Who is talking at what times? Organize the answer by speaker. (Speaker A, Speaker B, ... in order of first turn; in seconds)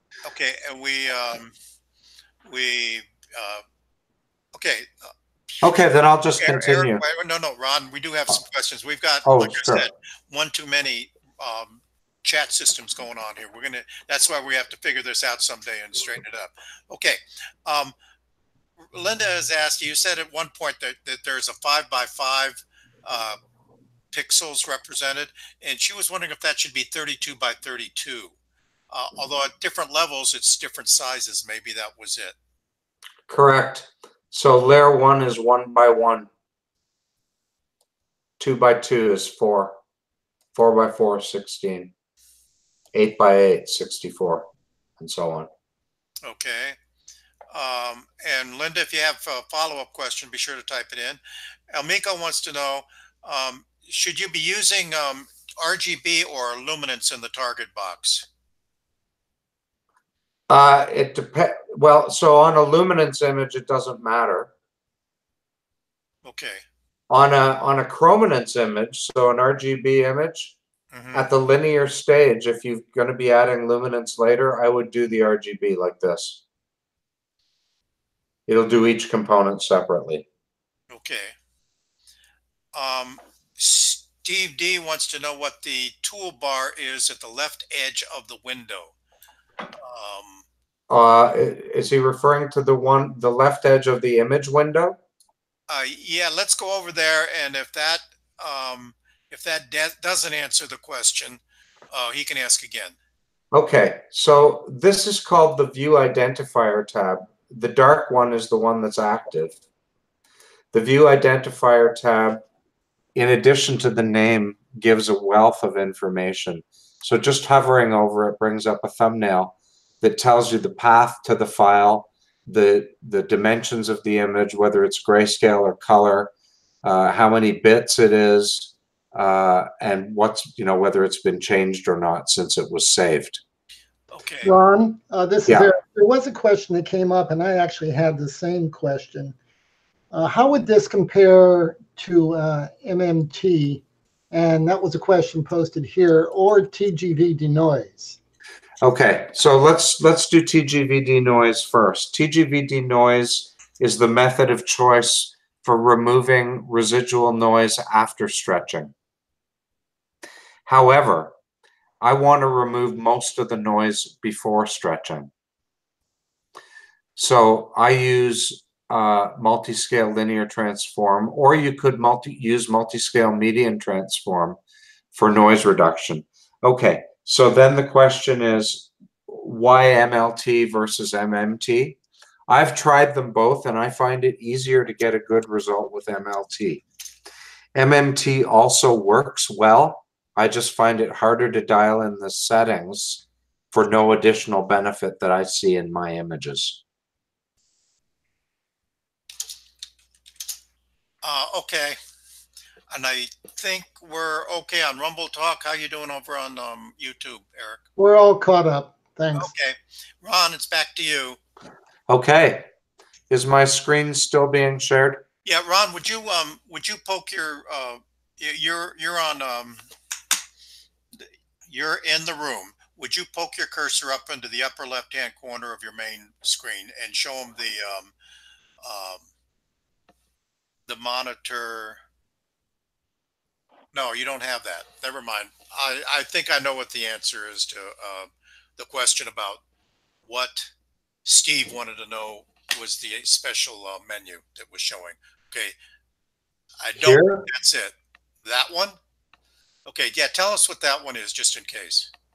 Speaker A: 0.2-1.5, 2.5-3.6, 4.5-5.1, 6.4-17.9, 18.9-23.4, 24.1-28.3, 28.9-32.4, 46.2-46.8, 47.5-58.3, 66.2-66.6, 70.9-71.2, 80.9-81.3, 82.7-88.9, 89.8-90.4, 95.7-101.4, 101.9-103.0, 134.1-134.5, 201.2-202.0, 202.9-207.8, 209.3-211.4, 215.4-219.8, 221.2-228.1, 228.8-229.3, 230.9-232.0, 233.9-239.6, 240.3-240.7, 241.2-245.7, 246.8-249.0, 249.8-252.1
Speaker B: 5.6-7.0, 9.2-9.9, 33.3-36.3, 38.4-39.8, 40.5-41.9, 42.9-45.5, 60.5-64.5, 67.1-70.5, 71.1-76.4, 78.5-80.2, 90.9-95.0, 103.5-109.6, 110.7-112.4, 113.1-126.3, 126.8-133.4, 148.8-158.9, 160.7-161.3, 162.0-165.3, 167.2-174.6, 175.1-182.0, 182.5-186.8, 187.7-196.8, 212.1-212.7, 213.3-215.2, 247.0-247.4
Speaker C: 134.4-139.3, 140.1-148.2, 208.0-209.5